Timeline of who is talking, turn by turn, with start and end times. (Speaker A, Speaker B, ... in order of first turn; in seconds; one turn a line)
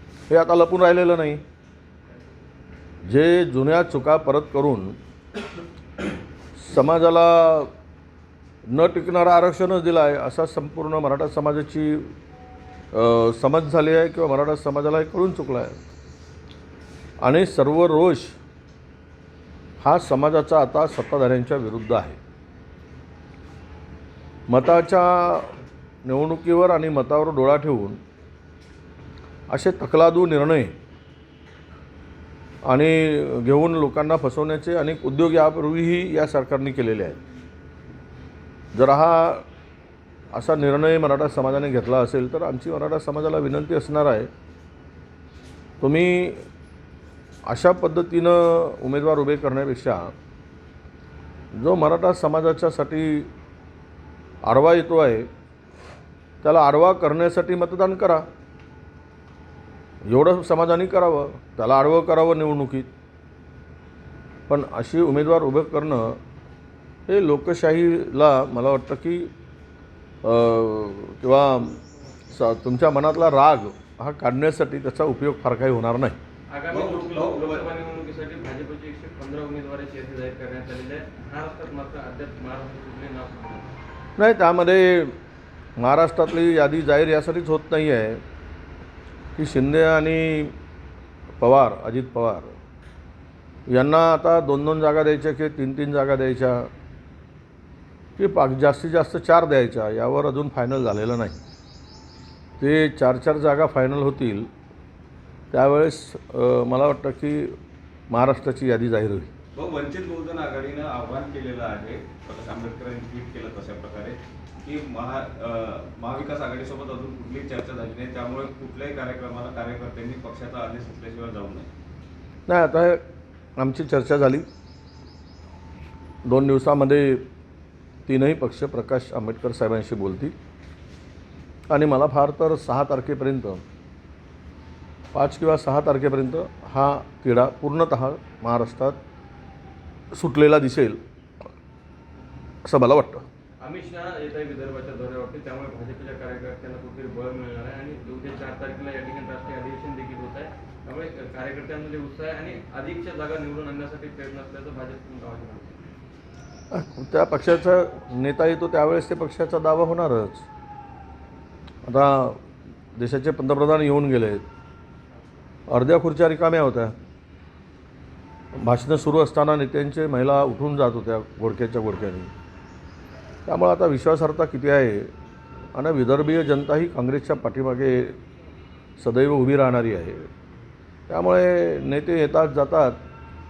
Speaker A: 0.3-1.4
Speaker A: 3.1-5.0
Speaker A: 6.6-7.7
Speaker A: 8.7-12.1
Speaker A: 12.9-15.8
Speaker A: 17.2-18.4
Speaker A: 19.8-22.2
Speaker A: 24.5-25.5
Speaker A: 26.1-28.0
Speaker A: 29.5-30.8
Speaker A: 32.7-37.2
Speaker A: 38.7-39.5
Speaker A: 40.3-44.3
Speaker A: 45.8-46.4
Speaker A: 47.5-50.1
Speaker A: 51.6-53.3
Speaker A: 54.4-55.3
Speaker A: 56.4-58.3
Speaker A: 60.1-62.9
Speaker A: 64.5-66.2
Speaker A: 67.1-69.3
Speaker A: 70.2-71.8
Speaker A: 72.3-76.2
Speaker B: 76.5-83.7
Speaker C: 76.7-77.7
Speaker A: 84.2-85.2
Speaker A: 85.8-88.2
Speaker A: 89.4-90.5
Speaker A: 91.4-92.6
Speaker A: 93.7-96.7
Speaker A: 98.2-101.4
Speaker A: 102.6-104.5
Speaker A: 105.5-107.6
Speaker A: 108.1-109.3
Speaker C: 109.5-121.7
Speaker A: 122.5-123.0
Speaker A: 123.6-124.5
Speaker A: 126.2-127.3
Speaker A: 128.1-130.3
Speaker A: 131.7-133.6
Speaker A: 135.1-139.0
Speaker A: 140.1-141.0
Speaker A: 142.7-143.2
Speaker B: 143.6-155.8
Speaker A: 156.7-160.5
Speaker A: 161.9-162.4
Speaker A: 163.0-164.4
Speaker A: 165.7-166.9
Speaker A: 168.6-172.3
Speaker A: 173.5-175.1
Speaker A: 175.7-178.2
Speaker A: 179.0-180.3
Speaker A: 181.1-183.0